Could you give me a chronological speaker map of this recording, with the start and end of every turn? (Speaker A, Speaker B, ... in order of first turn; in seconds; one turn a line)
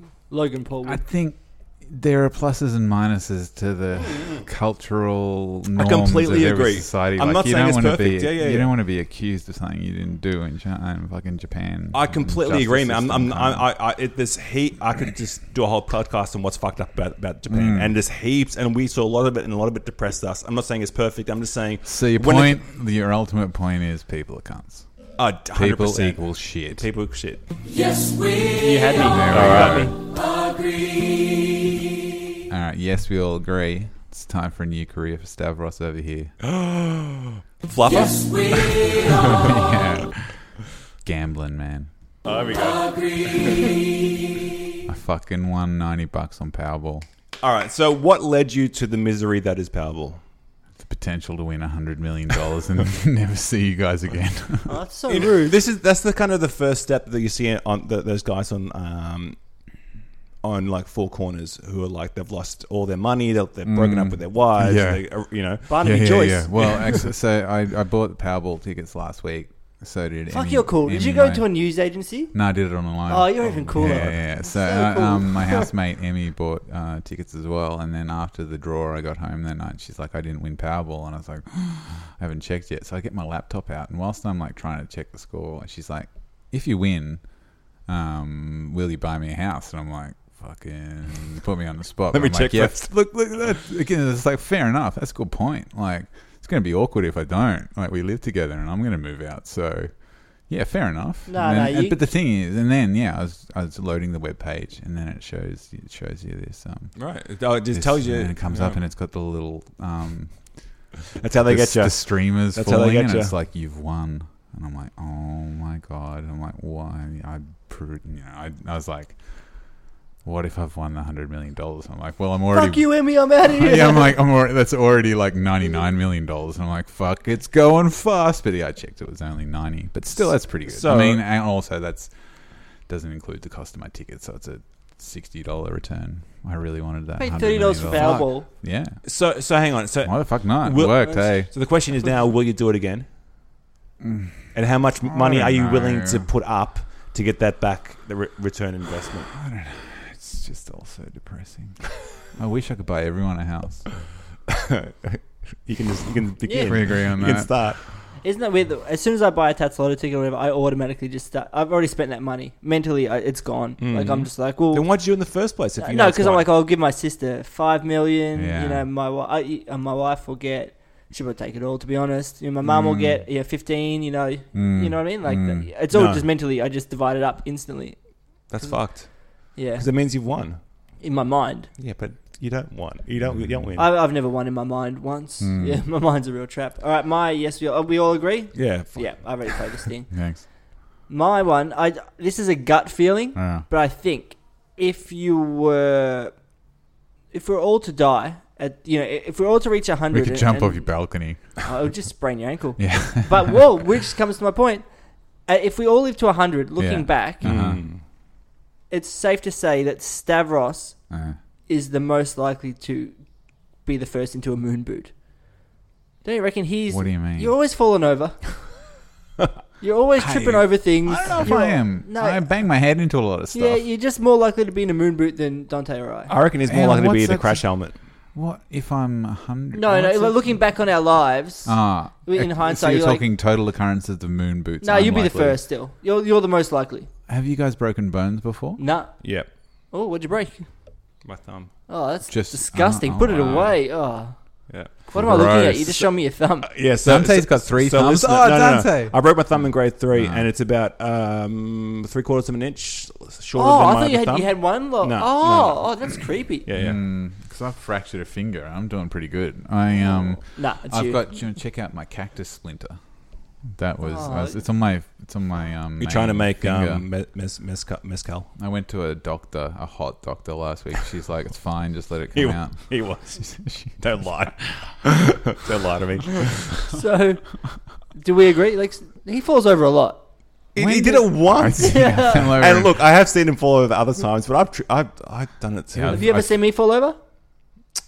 Speaker A: 0.3-1.0
Speaker B: 0.8-13.7
Speaker C: 5.7-8.7
Speaker C: 11.9-22.6
Speaker B: 17.5-17.9
Speaker B: 21.8-24.9
Speaker C: 25.2-27.4
Speaker B: 25.5-26.9
Speaker A: 28.5-29.9
Speaker B: 29.1-29.9
Speaker C: 29.1-29.9
Speaker B: 32.5-36.3
Speaker C: 36.4-39.5
Speaker B: 39.1-40.5
Speaker B: 41.0-41.9
Speaker C: 42.2-43.8
Speaker B: 44.9-47.0
Speaker C: 47.4-50.2
Speaker B: 50.8-54.8
Speaker A: 54.7-55.5
Speaker C: 55.1-59.4
Speaker C: 60.4-65.9
Speaker B: 63.6-65.0
Speaker A: 65.7-66.7
Speaker B: 65.8-71.5
Speaker C: 66.6-66.9
Speaker A: 70.3-72.3
Speaker B: 72.3-87.2
Speaker A: 73.1-75.7
Speaker C: 73.8-74.2
Speaker B: 87.8-107.0
Speaker C: 92.1-92.9
Speaker A: 101.3-102.0
Speaker C: 107.0-108.8
Speaker B: 107.7-110.3
Speaker C: 111.2-113.3
Speaker B: 111.5-119.2
Speaker B: 120.2-132.1
Speaker A: 122.5-124.2
Speaker C: 130.5-131.2
Speaker B: 132.9-139.0
Speaker A: 137.2-138.5
Speaker C: 139.0-143.1
Speaker B: 140.0-141.5
Speaker B: 144.0-146.3
Speaker C: 144.5-149.3
Speaker B: 149.3-153.9
Speaker C: 154.5-157.8
Speaker A: 156.4-156.8
Speaker B: 156.6-157.5
Speaker A: 158.2-164.8
Speaker C: 163.8-166.5
Speaker A: 165.8-178.0
Speaker B: 168.3-168.8
Speaker B: 172.6-173.2
Speaker B: 174.5-175.7
Speaker C: 175.9-176.2
Speaker C: 178.5-180.6
Speaker A: 179.5-179.8
Speaker A: 181.0-181.7
Speaker C: 181.8-183.9
Speaker B: 183.2-183.6
Speaker A: 183.8-190.1
Speaker B: 185.4-185.8
Speaker C: 188.5-189.6
Speaker B: 190.1-190.4
Speaker A: 191.1-196.3
Speaker B: 193.3-193.6
Speaker A: 197.3-204.9
Speaker B: 200.1-201.6
Speaker B: 202.8-203.6
Speaker A: 205.4-207.4
Speaker B: 206.8-207.9
Speaker C: 207.4-208.0
Speaker A: 208.9-211.0
Speaker B: 211.1-211.4
Speaker A: 211.7-213.2
Speaker A: 213.8-215.1
Speaker A: 216.2-218.6
Speaker B: 216.9-217.5
Speaker A: 219.8-222.5
Speaker B: 220.2-223.8
Speaker A: 223.5-226.3
Speaker C: 226.3-227.9
Speaker B: 226.7-227.6
Speaker B: 228.3-230.7
Speaker A: 229.7-233.2
Speaker B: 231.6-235.6
Speaker A: 234.8-237.1
Speaker B: 237.3-238.8
Speaker A: 238.8-239.3
Speaker C: 239.2-239.5
Speaker A: 239.9-240.7
Speaker C: 241.2-241.7
Speaker A: 241.9-244.3
Speaker B: 242.3-243.7
Speaker C: 244.7-245.1
Speaker A: 244.9-246.7
Speaker B: 245.1-246.1
Speaker C: 246.7-255.9
Speaker B: 247.0-250.5
Speaker A: 253.5-256.7
Speaker C: 256.6-257.0
Speaker B: 256.7-263.0
Speaker A: 260.5-261.2
Speaker B: 263.7-267.0
Speaker A: 264.0-264.6
Speaker C: 266.0-268.5
Speaker B: 268.6-274.0
Speaker C: 272.3-276.8
Speaker A: 276.9-277.4
Speaker A: 278.1-280.2
Speaker C: 280.7-286.3
Speaker B: 280.8-283.0
Speaker A: 281.8-282.5
Speaker B: 285.9-286.6
Speaker A: 286.1-287.2